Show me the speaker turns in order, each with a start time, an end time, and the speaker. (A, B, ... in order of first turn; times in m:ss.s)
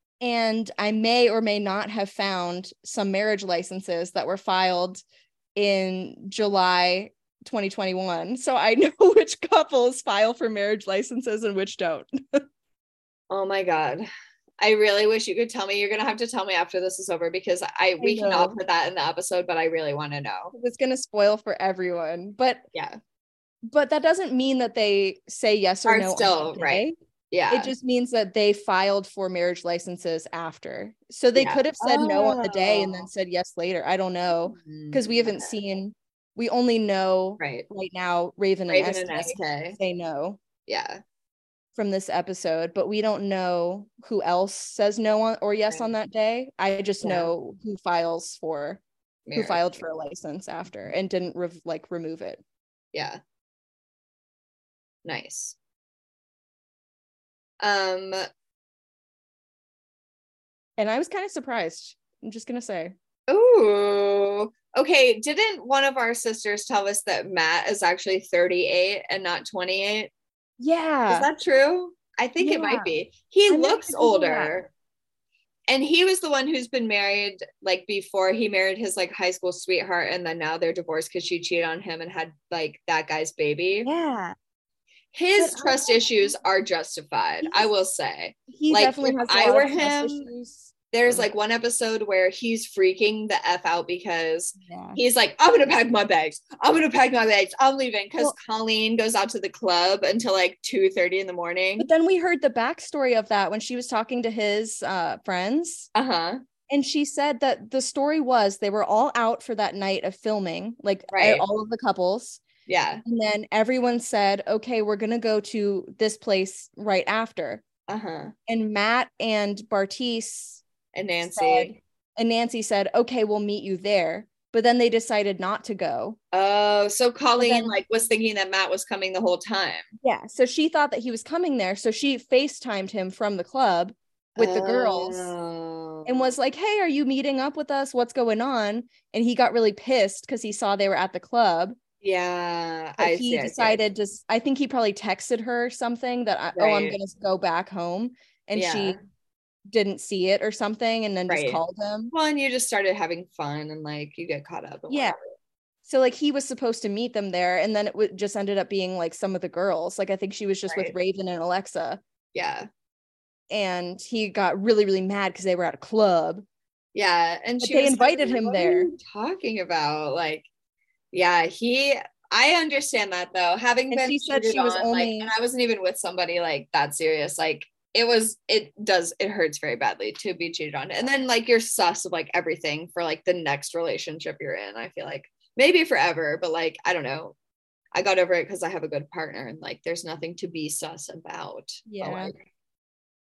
0:00.2-0:05.0 A
0:05.6-0:12.4 A
0:13.3-0:14.1 B
0:14.6-0:20.5 B
0:18.0-0:18.6 A
0:20.5-0:22.6 A
0:23.7-0:26.9 A
0:25.9-0:27.7 B
0:27.5-0:40.4 A
0:31.4-0:33.1 B
0:34.4-0:35.5 B
0:37.4-0:37.7 B
0:38.7-0:39.8 B
0:40.7-0:41.0 B
0:41.8-0:48.8 A
0:47.0-0:47.3 B
0:49.3-0:49.7 B
0:49.4-0:52.4 A
0:52.9-0:53.2 B
0:55.0-0:55.6 B
0:57.6-0:58.2 B
1:00.8-1:02.9 A
1:03.3-1:10.1 B
1:10.6-1:11.3 A
1:11.1-1:14.7 B
1:12.4-1:12.9 A
1:13.5-1:14.6 A
1:15.7-1:23.9 B
1:23.8-1:24.4 A
1:25.1-1:30.3 B
1:25.4-1:26.3 A
1:28.5-1:31.3 A
1:30.9-1:41.9 B
1:34.6-1:35.0 A
1:41.8-1:45.9 A
1:45.9-1:46.4 B
1:46.7-1:52.4 A
1:51.1-1:51.4 B
1:52.7-1:53.0 B
1:53.0-1:57.6 A
1:57.9-1:58.3 B
1:58.5-2:00.6 A
2:00.9-2:01.8 B
2:01.2-2:06.2 A
2:06.3-2:09.9 B
2:07.4-2:07.8 A
2:10.0-2:15.3 A
2:14.4-2:16.3 B
2:16.1-2:21.8 A
2:22.0-2:23.8 B
2:23.0-2:29.0 A
2:26.6-2:27.0 B
2:28.6-2:29.0 B
2:29.7-2:32.1 A
2:31.3-2:31.6 B
2:32.1-2:35.3 B
2:34.9-2:35.2 A
2:35.8-2:42.0 A
2:40.7-2:40.9 B
2:42.3-2:42.7 B
2:43.5-2:46.4 A
2:47.0-2:50.5 B
2:47.6-2:48.9 A
2:51.1-3:07.4 B
2:53.9-2:55.3 A
3:08.0-3:12.4 B
3:11.9-3:12.3 A